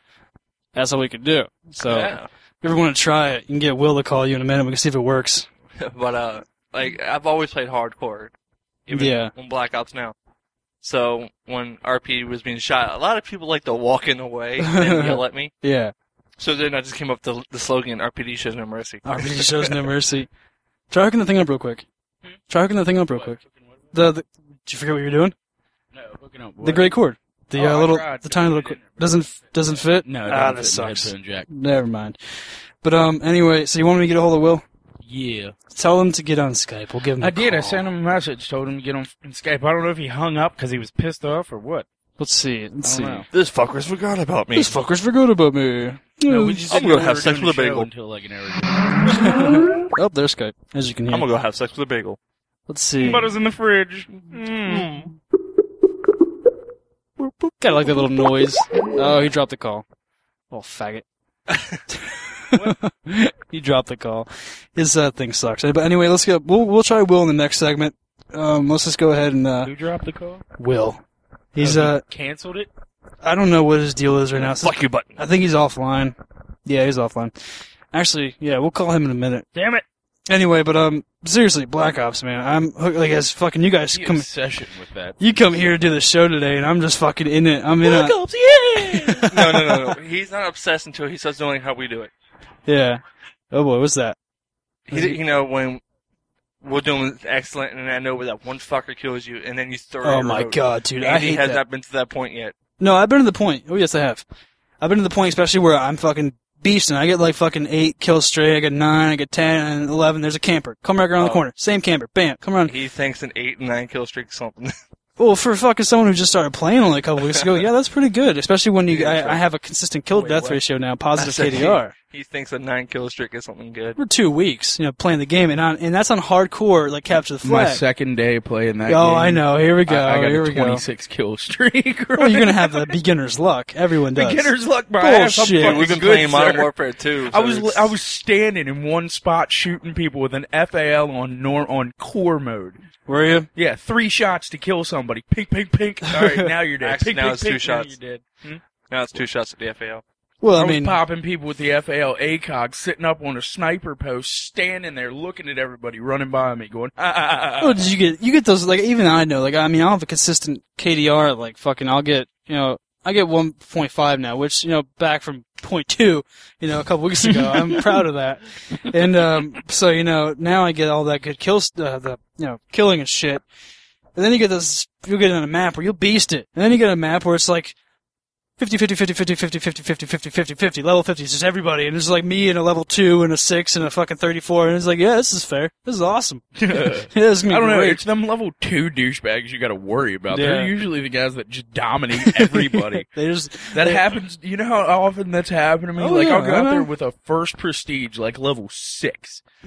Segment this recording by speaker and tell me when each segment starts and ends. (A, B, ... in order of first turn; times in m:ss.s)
0:00.8-0:05.5 A
0:01.8-0:02.3 B
0:05.8-0:08.3 B
0:08.9-0:10.2 B
0:08.9-0:09.3 A
0:10.8-0:15.5 B
0:14.6-0:15.9 A
0:16.4-0:19.8 B
0:19.0-0:20.3 A
0:20.9-0:21.9 A
0:22.5-0:23.4 A
0:23.1-0:24.1 C
0:23.9-0:25.4 A
0:25.9-0:27.0 C
0:26.6-0:34.6 A
0:27.5-0:31.5 C
0:35.0-0:35.6 C
0:35.7-0:37.9 A
0:37.2-0:41.9 C
0:42.2-0:43.2 A
0:42.8-0:43.3 C
0:43.3-0:44.8 B
0:44.6-0:46.6 A
0:46.3-0:48.9 C
0:46.7-0:47.9 B
0:49.2-0:51.2 A
0:51.1-0:52.2 B
0:52.7-0:53.3 A
0:53.0-0:55.0 C
0:54.7-0:55.1 B
0:57.2-0:59.8 A
1:00.5-1:01.0 A
1:01.5-1:01.8 B
1:02.5-1:09.7 A
1:09.6-1:10.4 C
1:10.6-1:11.0 A
1:11.5-1:12.0 A
1:11.6-1:12.7 C
1:13.2-1:17.3 A
1:14.4-1:15.2 B
1:17.9-1:19.5 A
1:19.5-1:19.8 C
1:20.3-1:24.3 A
1:23.9-1:25.2 C
1:25.2-1:28.2 A
1:27.8-1:29.3 C
1:28.8-1:29.8 A
1:29.3-1:32.1 B
1:32.7-1:34.2 A
1:34.9-1:35.8 B
1:34.9-1:35.2 A
1:36.6-1:42.6 B
1:40.0-1:41.6 A
1:42.8-1:44.2 A
1:44.8-1:52.7 A
1:52.7-1:54.8 B
1:55.2-2:01.9 A
1:58.9-1:59.4 B
2:00.1-2:00.6 C
2:01.2-2:04.0 B
2:04.0-2:07.8 A
2:07.4-2:13.0 C
2:08.9-2:10.8 A
2:12.2-2:16.0 A
2:14.2-2:16.7 C
2:15.5-2:17.9 B
2:17.3-2:22.8 C
2:23.1-2:23.5 A
2:23.6-2:28.6 C
2:26.1-2:26.5 A
2:26.8-2:27.9 B
2:28.9-2:30.0 B
2:30.4-2:31.0 A
2:30.6-2:37.8 C
2:37.6-2:53.4 A
2:47.2-2:48.0 C
2:54.2-2:57.8 A
2:58.6-3:06.6 A
3:06.6-3:13.1 C
3:07.1-3:08.0 A
3:10.3-3:10.7 A
3:12.2-3:14.1 A
3:13.7-3:19.4 C
3:16.0-3:16.9 A